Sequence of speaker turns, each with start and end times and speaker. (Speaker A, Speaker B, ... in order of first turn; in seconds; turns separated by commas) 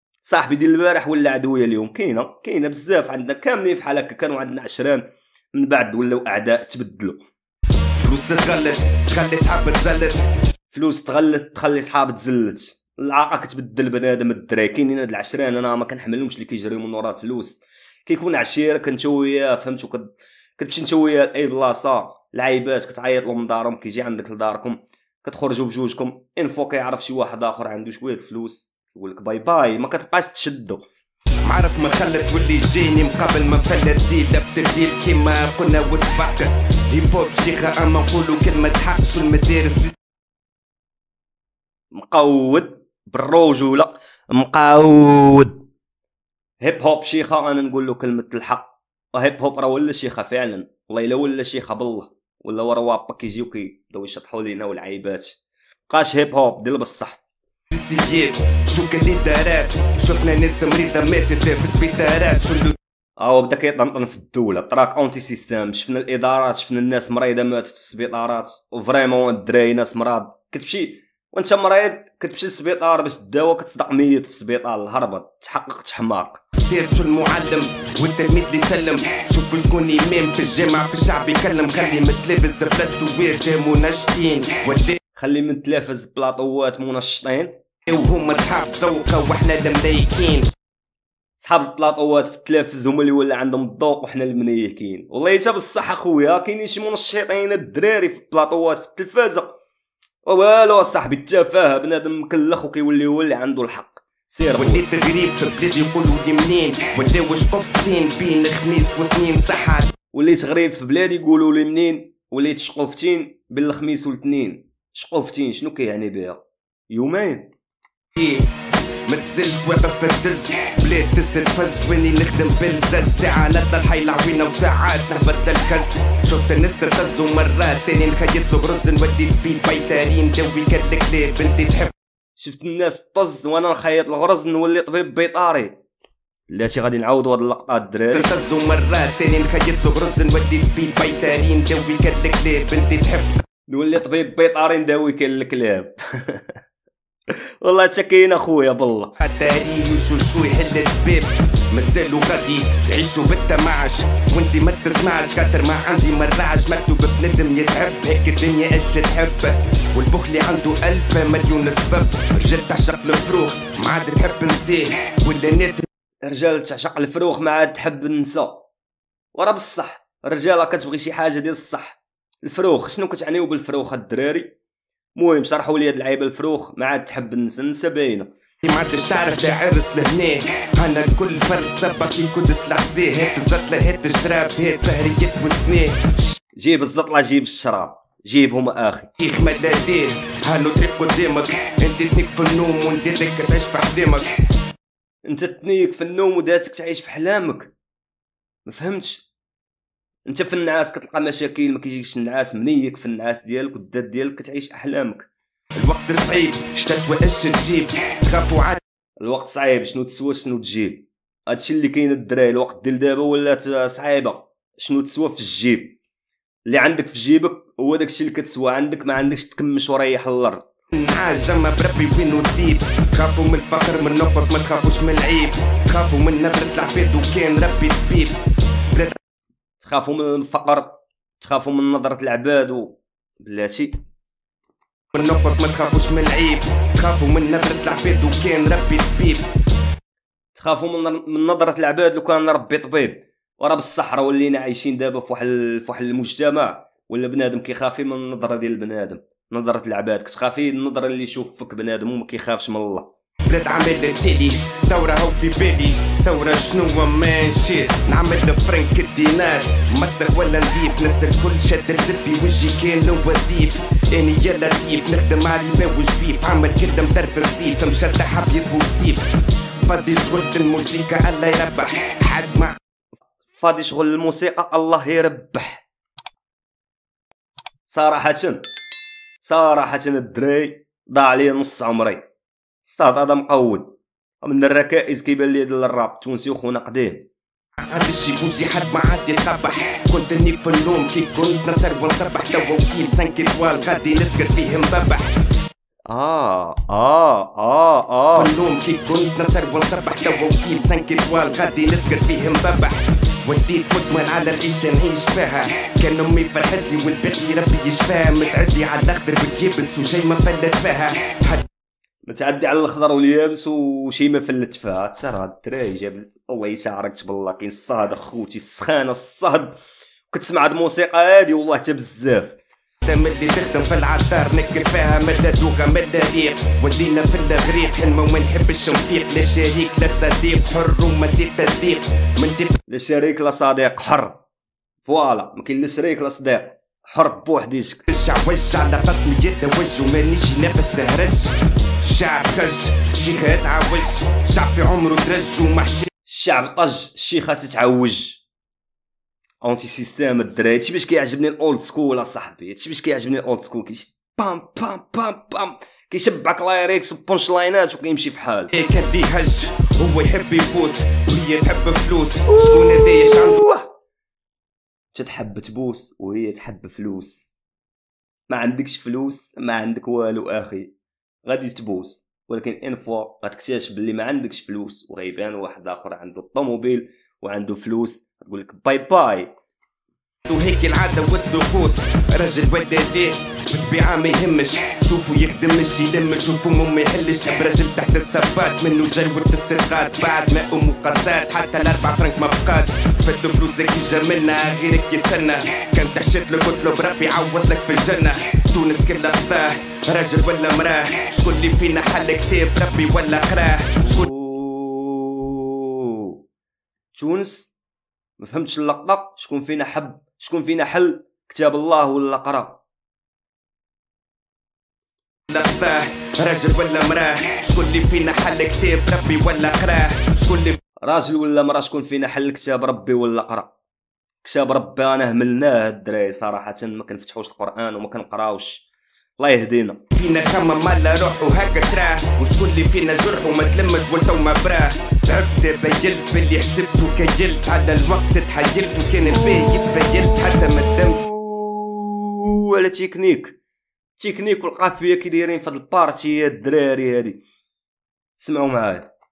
Speaker A: 0.2-7.2, Speaker B: 8.0-10.2, Speaker A: 10.7-30.8, Speaker B: 31.4-40.0, Speaker A: 41.9-45.6, Speaker A: 46.6-57.2, Speaker B: 57.7-62.8, Speaker A: 63.2-76.4, Speaker B: 76.5-85.0, Speaker A: 85.2-87.5, Speaker B: 87.9-90.5, Speaker A: 91.4-99.5, Speaker A: 100.2-104.8, Speaker B: 104.5-109.9, Speaker A: 110.1-117.5, Speaker B: 118.2-118.5, Speaker B: 119.1-131.9, Speaker A: 132.4-135.8, Speaker A: 136.5-138.3, Speaker B: 138.1-143.4, Speaker A: 143.7-146.6, Speaker A: 147.6-149.1, Speaker B: 149.2-165.9, Speaker A: 166.2-168.7, Speaker A: 169.3-174.5, Speaker A: 175.2-178.3, Speaker B: 178.6-186.4, Speaker A: 186.6-189.1, Speaker B: 189.2-194.3, Speaker A: 195.2-197.7, Speaker A: 198.7-199.3, Speaker A: 200.3-205.3, Speaker B: 205.8-208.8, Speaker A: 209.2-216.0, Speaker A: 216.7-220.6, Speaker B: 220.9-228.4, Speaker A: 229.8-234.0, Speaker B: 235.1-239.5, Speaker A: 240.6-253.1, Speaker B: 253.5-269.3, Speaker B: 269.9-272.8, Speaker A: 273.5-275.8, Speaker A: 277.9-278.6, Speaker A: 279.4-282.2, Speaker A: 282.8-287.3, Speaker B: 287.9-295.3, Speaker A: 296.1-298.5, Speaker B: 298.3-311.7, Speaker A: 312.2-319.8, Speaker A: 320.3-322.6, Speaker B: 323.1-332.8, Speaker A: 332.9-334.4, Speaker A: 335.0-338.0, Speaker B: 338.1-346.1, Speaker A: 346.3-348.4, Speaker A: 349.6-358.7, Speaker B: 358.7-363.7, Speaker A: 362.5-363.9, Speaker A: 365.1-367.6, Speaker A: 368.5-370.9, Speaker A: 371.4-379.5, Speaker B: 380.5-404.3, Speaker A: 404.0-406.4, Speaker A: 407.1-407.8, Speaker A: 408.4-412.8, Speaker B: 415.5-420.8, Speaker A: 421.0-423.7, Speaker A: 424.4-428.9, Speaker A: 429.4-430.0, Speaker B: 430.1-441.3, Speaker A: 439.3-443.6, Speaker A: 444.2-447.4, Speaker A: 448.4-449.1